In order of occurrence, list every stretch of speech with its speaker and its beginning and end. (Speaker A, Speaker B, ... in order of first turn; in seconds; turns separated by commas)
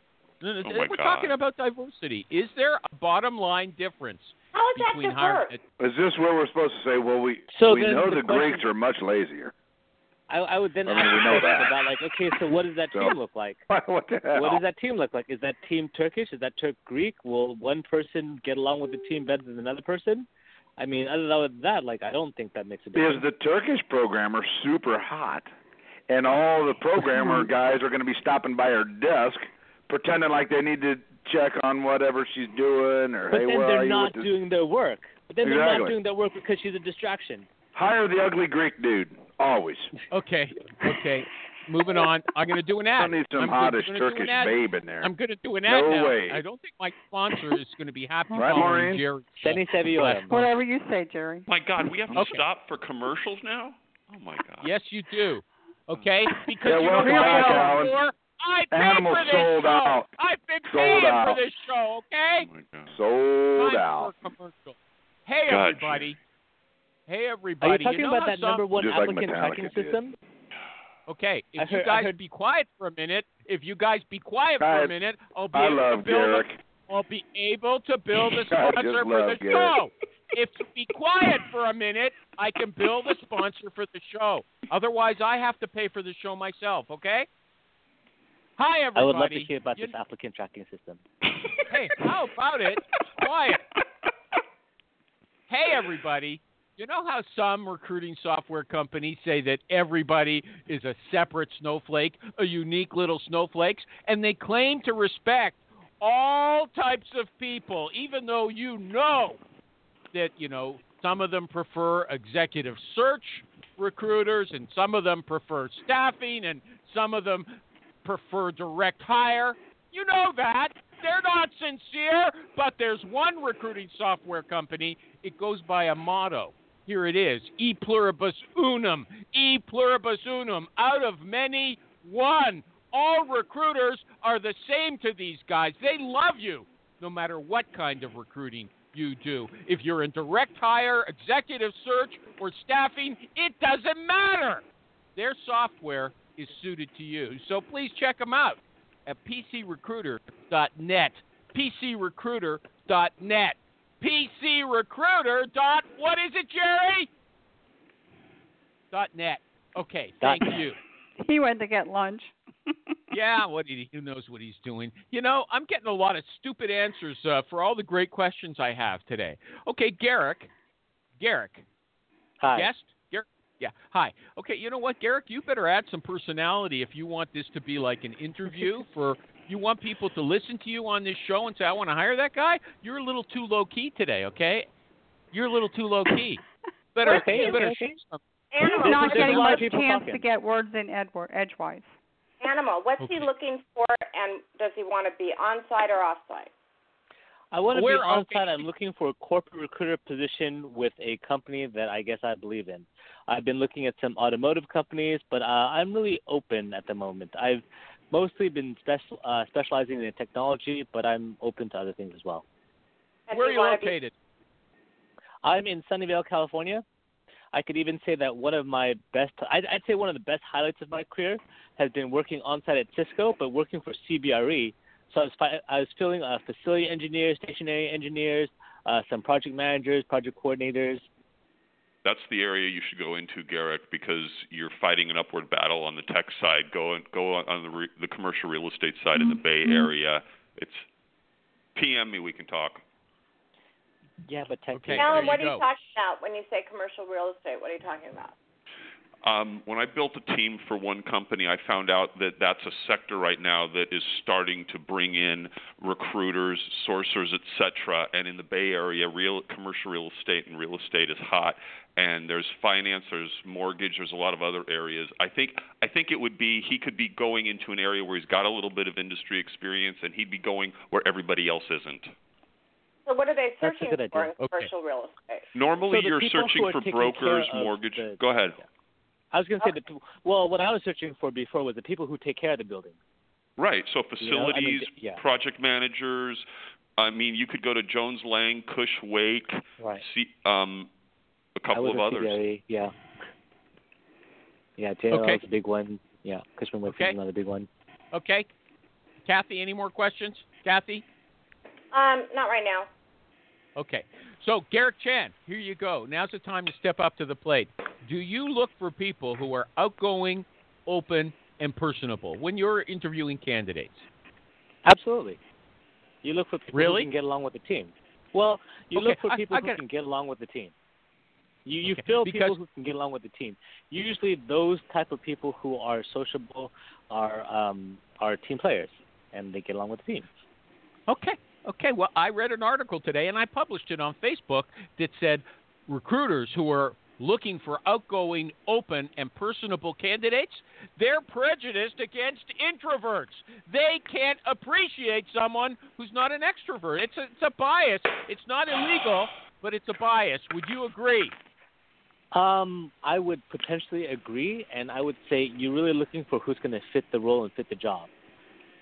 Speaker A: 0.4-5.6, Speaker B: 0.6-1.4, Speaker C: 4.5-5.5, Speaker D: 5.8-9.5, Speaker E: 7.5-8.7, Speaker E: 10.3-13.6, Speaker D: 10.8-13.1, Speaker D: 13.7-14.6, Speaker E: 14.3-20.3, Speaker E: 20.8-23.2, Speaker D: 22.9-25.5, Speaker D: 26.1-34.3, Speaker E: 33.3-37.5, Speaker D: 35.4-36.0, Speaker D: 37.7-39.9, Speaker A: 40.1-50.5, Speaker D: 43.0-45.1, Speaker D: 45.7-46.4, Speaker F: 48.3-48.6, Speaker D: 48.3-49.0, Speaker E: 49.4-50.3, Speaker F: 50.3-51.5, Speaker B: 51.5-54.7, Speaker A: 52.1-52.4, Speaker A: 54.6-62.5, Speaker D: 56.6-58.0, Speaker F: 57.0-57.7, Speaker D: 58.7-60.1, Speaker D: 60.7-61.4, Speaker B: 62.4-62.9, Speaker D: 62.9-64.1, Speaker A: 63.6-66.2, Speaker B: 65.5-66.1, Speaker A: 67.1-68.6, Speaker E: 67.6-70.1, Speaker D: 68.7-70.0, Speaker A: 71.1-87.3, Speaker E: 71.6-72.1, Speaker D: 74.6-74.9, Speaker D: 75.5-76.6, Speaker D: 78.4-79.8, Speaker A: 88.6-89.9, Speaker E: 88.9-91.0, Speaker A: 91.7-93.6, Speaker A: 95.5-109.4, Speaker A: 110.1-144.6, Speaker A: 145.2-157.1, Speaker A: 158.9-160.8, Speaker E: 160.2-160.6, Speaker F: 161.2-162.7, Speaker A: 163.1-170.5, Speaker A: 171.2-171.6, Speaker E: 172.4-172.7, Speaker A: 172.5-184.7, Speaker A: 185.3-186.4, Speaker A: 186.9-189.4, Speaker E: 187.0-188.0, Speaker C: 187.1-187.6, Speaker C: 188.5-189.6, Speaker F: 188.6-191.9, Speaker E: 188.8-190.2, Speaker C: 192.4-196.5, Speaker A: 193.0-193.3, Speaker E: 197.5-212.4, Speaker A: 197.7-198.7, Speaker C: 213.3-213.9, Speaker A: 213.3-214.1, Speaker E: 215.4-216.8, Speaker E: 217.5-231.0, Speaker B: 232.0-240.8, Speaker F: 239.2-239.9, Speaker B: 241.7-242.8, Speaker E: 244.2-245.3, Speaker A: 244.7-245.6, Speaker C: 245.0-248.3, Speaker B: 249.2-272.1, Speaker C: 273.1-275.4, Speaker E: 273.6-274.3, Speaker A: 274.4-274.7, Speaker B: 275.5-278.6, Speaker E: 275.9-278.2, Speaker E: 279.3-283.0, Speaker B: 283.6-286.4, Speaker E: 284.2-285.2, Speaker B: 287.0-290.9, Speaker B: 291.6-292.4, Speaker E: 291.7-292.9, Speaker E: 294.8-297.7, Speaker A: 295.1-295.4, Speaker A: 296.9-297.1, Speaker A: 298.1-298.5, Speaker A: 299.2-301.0, Speaker C: 301.9-302.9, Speaker A: 303.8-314.0, Speaker E: 314.8-315.4, Speaker E: 316.2-320.7, Speaker A: 316.7-317.1, Speaker A: 318.9-319.8, Speaker E: 321.6-330.3, Speaker A: 321.9-322.6, Speaker A: 331.1-351.3, Speaker E: 352.3-358.1